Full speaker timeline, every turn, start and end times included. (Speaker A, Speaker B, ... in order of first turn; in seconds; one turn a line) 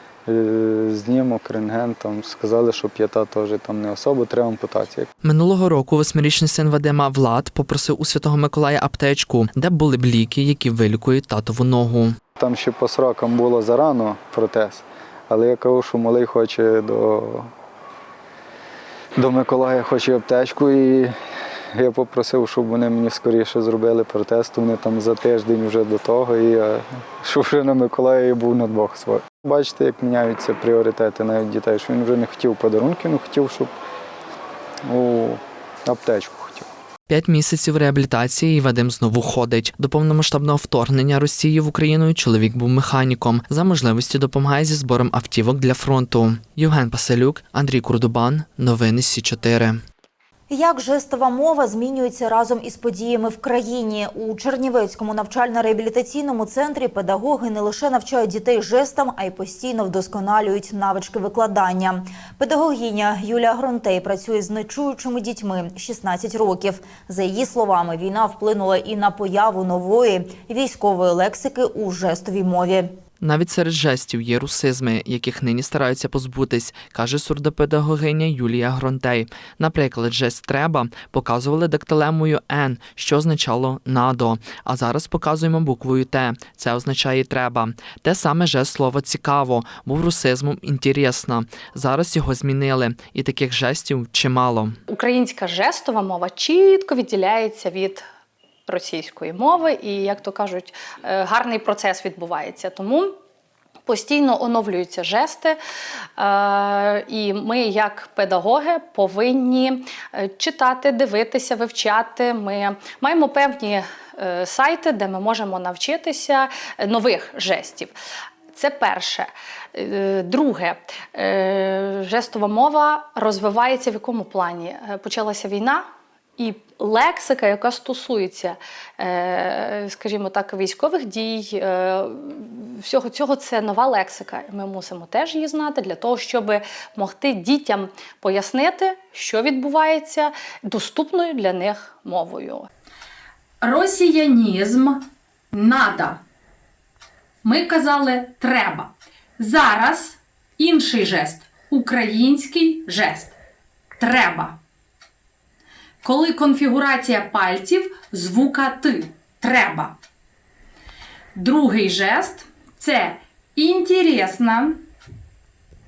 Speaker A: 0.3-5.1
Speaker B: 5.2-12.2
Speaker A: 12.4-17.5
Speaker A: 19.2-21.1
Speaker A: 21.7-33.7
Speaker A: 34.9-36.6
Speaker B: 37.1-49.8
Speaker C: 50.5-72.9
Speaker B: 73.2-94.7
Speaker D: 94.9-98.0
Speaker D: 98.7-103.1
Speaker D: 103.8-105.6
Speaker D: 106.2-117.9
Speaker D: 118.5-125.8
Speaker D: 126.4-142.7
Speaker E: 143.6-146.2
Speaker E: 147.4-153.3
Speaker E: 154.0-154.6
Speaker E: 156.0-159.9
Speaker E: 161.3-164.8